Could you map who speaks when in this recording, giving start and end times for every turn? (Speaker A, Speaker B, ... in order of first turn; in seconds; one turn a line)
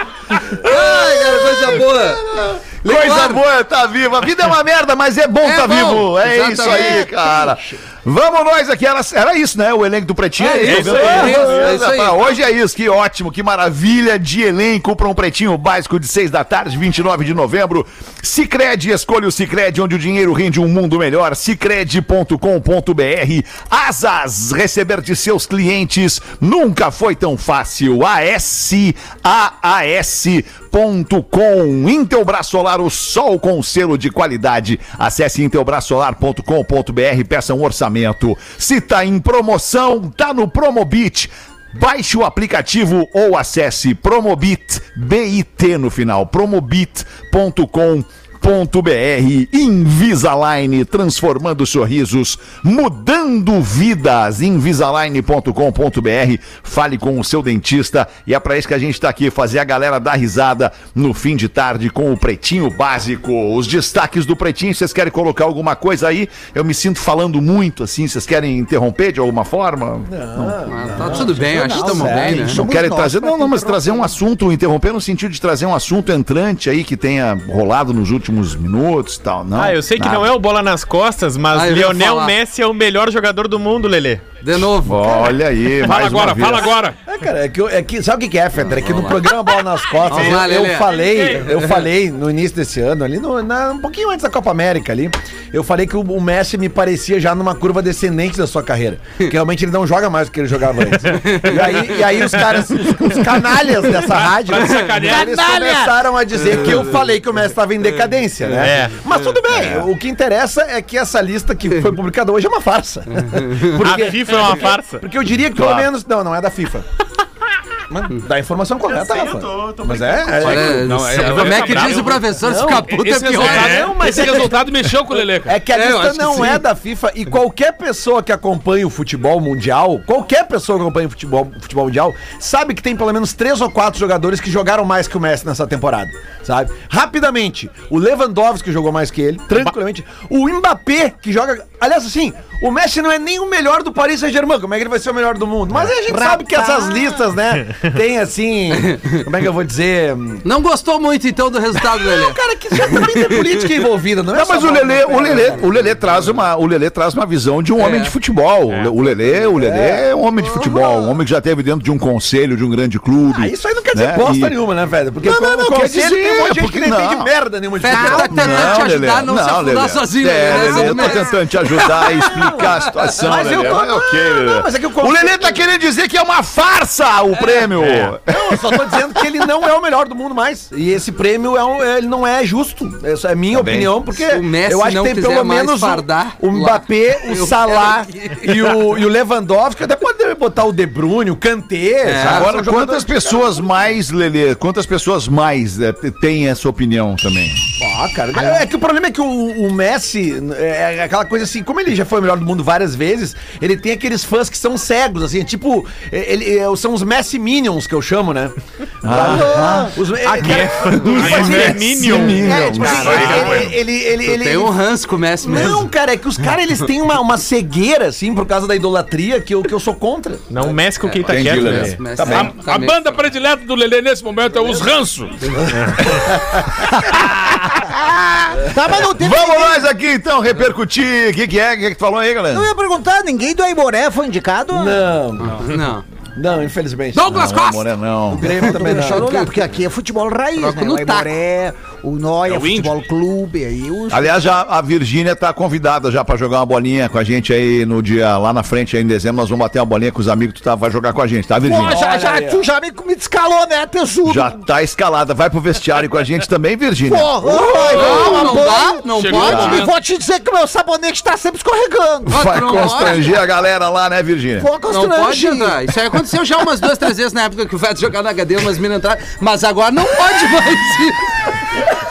Speaker A: 0.5-2.3
Speaker B: 0.6-70.6
Speaker A: 2.8-3.4
Speaker A: 5.4-7.1
Speaker C: 6.7-7.5
Speaker A: 10.4-12.2
Speaker D: 10.6-11.7
Speaker E: 70.1-72.7
Speaker A: 70.7-72.6
Speaker B: 72.6-80.4
Speaker C: 72.6-73.8
Speaker F: 79.5-84.3
Speaker A: 81.5-82.3
Speaker A: 84.4-85.4
Speaker B: 84.8-86.7
Speaker D: 85.8-87.0
Speaker E: 87.0-116.9
Speaker A: 88.7-91.7
Speaker F: 90.1-91.6
Speaker A: 101.1-102.1
Speaker D: 104.2-105.5
Speaker A: 104.7-104.9
Speaker C: 105.0-106.0
Speaker A: 106.5-106.9
Speaker A: 108.5-109.4
Speaker F: 108.6-109.0
Speaker B: 109.5-109.9
Speaker A: 113.2-113.7
Speaker F: 113.8-115.0
Speaker B: 115.5-115.9
Speaker E: 117.9-121.0
Speaker F: 118.8-122.2
Speaker A: 120.3-124.0
Speaker D: 120.4-125.6
Speaker E: 122.4-123.0
Speaker F: 123.4-124.5
Speaker E: 123.7-124.5
Speaker E: 125.4-150.5
Speaker A: 125.7-126.7
Speaker C: 146.1-147.2
Speaker A: 148.9-149.2
Speaker A: 150.4-153.7
Speaker E: 151.8-155.7
Speaker B: 154.3-164.6
Speaker A: 157.8-158.1
Speaker E: 159.2-160.1
Speaker A: 160.4-161.2
Speaker E: 163.3-169.0
Speaker B: 165.2-167.3
Speaker A: 167.8-173.2
Speaker C: 167.8-168.8
Speaker B: 168.2-179.2
Speaker C: 170.5-171.1
Speaker E: 173.1-175.6
Speaker F: 177.8-178.1
Speaker E: 178.2-193.5
Speaker B: 183.5-183.9
Speaker A: 184.2-188.8
Speaker A: 192.0-192.5
Speaker B: 192.2-197.6
Speaker E: 197.8-220.4
Speaker B: 209.0-210.0
Speaker C: 209.3-209.9
Speaker F: 210.2-213.7
Speaker B: 211.0-213.8
Speaker C: 212.3-213.3
Speaker A: 214.2-215.9
Speaker F: 220.5-222.0
Speaker A: 220.6-223.1
Speaker B: 221.2-222.4
Speaker E: 222.1-222.5
Speaker D: 222.2-225.6
Speaker F: 225.8-226.1
Speaker E: 226.1-226.6
Speaker B: 226.8-232.7
Speaker C: 228.7-229.8
Speaker C: 232.5-235.0
Speaker E: 234.7-235.8
Speaker A: 235.5-236.0
Speaker E: 236.3-237.4
Speaker A: 237.1-237.9
Speaker B: 237.2-238.6
Speaker E: 238.3-239.5
Speaker A: 238.4-239.4
Speaker C: 238.7-244.4
Speaker A: 240.6-241.3
Speaker D: 242.4-243.0
Speaker B: 244.1-252.1
Speaker C: 251.6-254.6
Speaker E: 251.8-252.7
Speaker B: 254.2-258.2
Speaker C: 257.1-263.2
Speaker E: 257.5-258.6
Speaker D: 257.8-258.6
Speaker A: 257.8-259.8
Speaker D: 259.1-259.9
Speaker B: 259.4-259.9
Speaker B: 262.3-264.7
Speaker A: 262.3-263.4
Speaker C: 264.6-265.9
Speaker A: 264.9-271.8